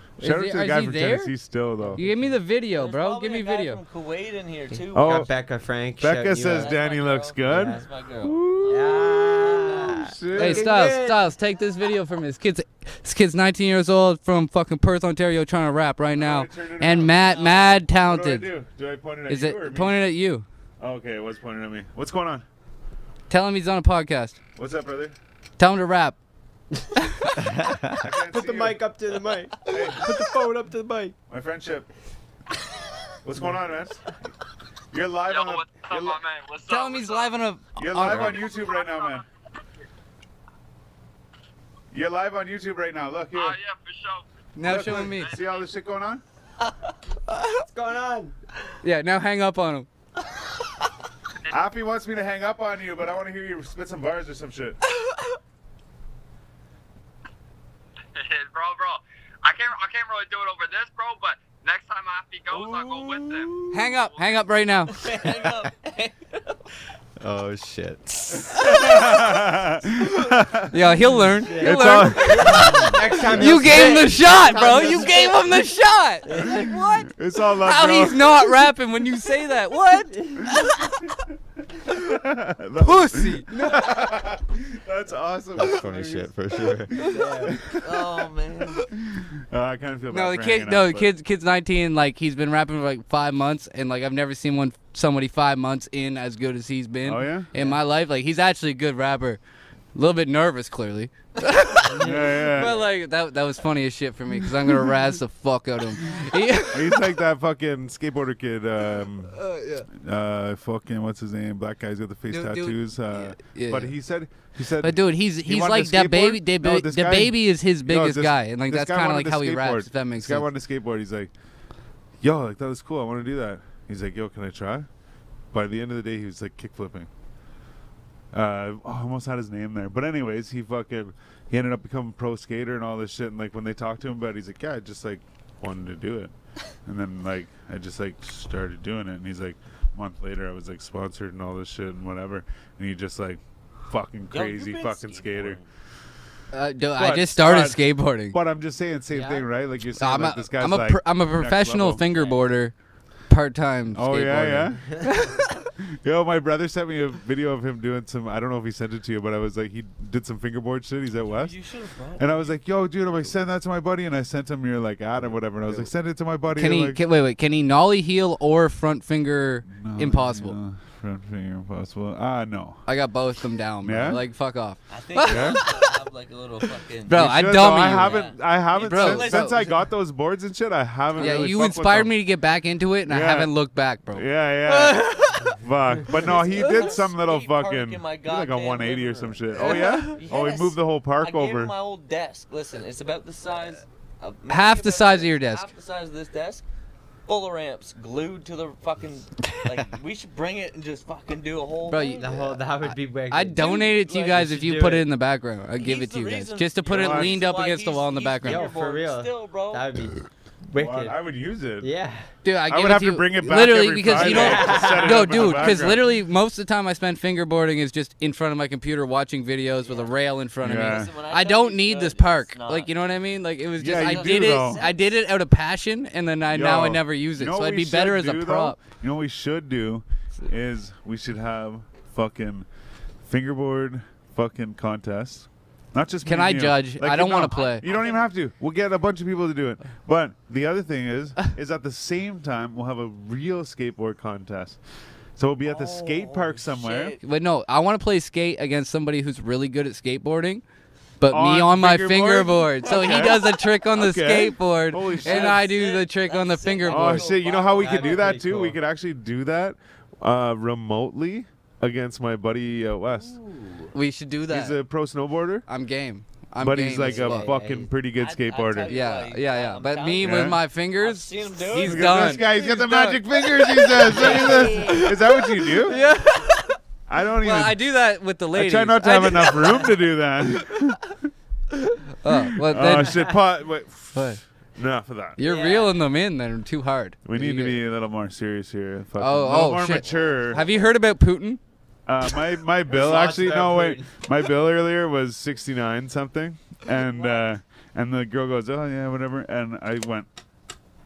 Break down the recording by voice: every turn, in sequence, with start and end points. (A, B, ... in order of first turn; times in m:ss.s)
0:00.2-0:01.4 A
0:00.2-0:02.0 B
0:01.8-0:02.2 C
0:02.0-0:03.8 A
0:02.7-0:05.3 D
0:04.9-0:06.8 C
0:04.9-0:05.3 B
0:06.0-0:10.7 B
0:06.4-0:09.4 D
0:07.4-0:07.8 C
0:08.7-0:11.3 C
0:10.4-0:18.5 A
0:16.2-0:17.2 B
0:17.2-0:17.8 D
0:18.0-0:20.1 B
0:19.3-0:20.5 A
0:20.8-0:22.4 B
0:23.3-0:24.4 A
0:24.6-0:25.2 B
0:25.6-0:26.2 A
0:27.7-0:31.2 C
0:28.0-0:28.9 B
0:29.6-0:30.1 B
0:31.3-0:31.9 B
0:33.2-0:34.1 B
0:34.9-0:36.2 B
0:35.3-0:37.3 E
0:36.7-0:38.4 A
0:36.7-0:37.0 D
0:37.8-0:39.2 B
0:38.3-0:39.1 E
0:41.9-0:43.6 B
0:43.4-0:44.2 E
0:44.6-0:45.4 A
0:44.6-0:46.2 B
0:47.7-0:48.4 C
0:48.8-0:49.9 A
0:51.5-0:54.8 B
0:58.2-1:03.5 E
1:02.5-1:03.6 D
1:02.5-1:03.3 B
1:03.7-1:05.0 A
1:04.9-1:06.5 D
1:07.2-1:08.7 F
1:08.5-1:10.8 B
1:10.7-1:21.0 A
1:11.4-1:15.4 C
1:11.5-1:13.5 B
1:13.6-1:15.2 D
1:16.3-1:16.7 C
1:16.4-1:18.6 B
1:20.1-1:20.5 C
1:21.9-1:28.0 B
1:22.8-1:24.1 A
1:25.6-1:26.9 F
1:27.0-1:27.6 C
1:27.8-1:28.9 D
1:29.1-1:31.1 B
1:30.1-1:39.4 A
1:37.0-1:37.5 B
1:39.9-1:47.1 A
1:41.9-1:42.8 C
1:42.0-1:42.7 B
1:46.7-1:49.4 B
1:49.3-1:49.9 A
1:50.0-2:01.3 B
1:52.3-1:54.0 A
1:54.8-2:00.5 A
2:02.2-2:04.9 B
2:05.5-2:07.1 B
2:08.3-2:16.3 B
2:16.9-2:25.6 B
2:24.3-2:25.7 D
2:26.5-2:28.4 A
2:27.0-2:32.0 B
2:29.1-2:29.5 C
2:30.0-2:32.7 A
2:32.1-2:32.4 D
2:33.3-2:35.4 A
2:33.9-2:34.9 B
2:36.0-2:41.6 B
2:41.2-2:42.6 D
2:42.2-2:47.0 B
2:45.2-2:45.9 F
2:46.5-2:50.6 A
2:49.7-2:52.8 B
2:52.9-2:55.9 A
2:53.8-2:54.2 B
2:54.9-2:57.3 D
2:55.2-2:55.6 B
2:57.1-2:59.7 A
2:57.1-3:02.2 B
2:57.9-2:59.8 D
3:01.2-3:05.6 A
3:03.1-3:03.6 B
3:04.1-3:11.7 B
3:06.1-3:16.6 D
3:09.6-3:10.2 A
3:14.5-3:15.7 A
3:17.3-3:22.5 D
3:21.9-3:22.3 A
3:22.1-3:25.1 C
3:22.9-3:28.7 A
3:25.8-3:29.9 D
3:26.9-3:27.4 B
3:28.4-3:31.3 C
3:30.8-3:31.9 B
3:31.8-3:32.3 C
3:32.4-3:48.8 A
3:32.7-3:36.2 B
3:34.1-3:35.8 C
3:39.8-3:40.2 D
3:40.6-3:41.1 B
3:40.8-3:43.1 D
3:43.8-3:44.8 B
3:43.9-3:45.2 D
3:46.5-3:52.7 B
3:53.3-4:04.8 B
3:56.2-3:57.9 A
3:57.5-3:58.3 D
4:05.4-4:07.2 B
4:05.6-4:07.2 D
4:07.2-4:10.6 A
4:11.2-4:17.3 A
4:11.3-4:15.7 B
4:12.9-4:13.6 D
4:15.2-4:18.4 D
4:16.9-4:23.4 B
4:17.7-4:18.8 C
4:23.1-4:23.9 D
4:23.9-4:24.8 A
4:24.5-4:25.7 B
4:25.7-4:27.5 A
4:26.6-4:29.0 B
4:27.0-4:27.9 C
4:28.2-4:32.6 D
4:28.9-4:36.8 A
4:30.2-4:30.6 B
4:31.8-4:36.0 B
4:34.1-4:35.1 D
4:37.1-4:37.8 B
4:37.4-4:39.9 A
4:38.5-4:41.0 B
4:42.2-4:43.4 A
4:42.6-4:45.4 B
4:44.1-4:44.4 A
4:45.4-4:47.8 A
4:45.4-4:46.0 D
4:47.2-4:50.6 B
4:49.2-4:51.6 A
4:50.0-4:50.9 D
4:52.1-5:00.3 B
4:52.9-4:54.1 C
4:56.9-4:57.5 D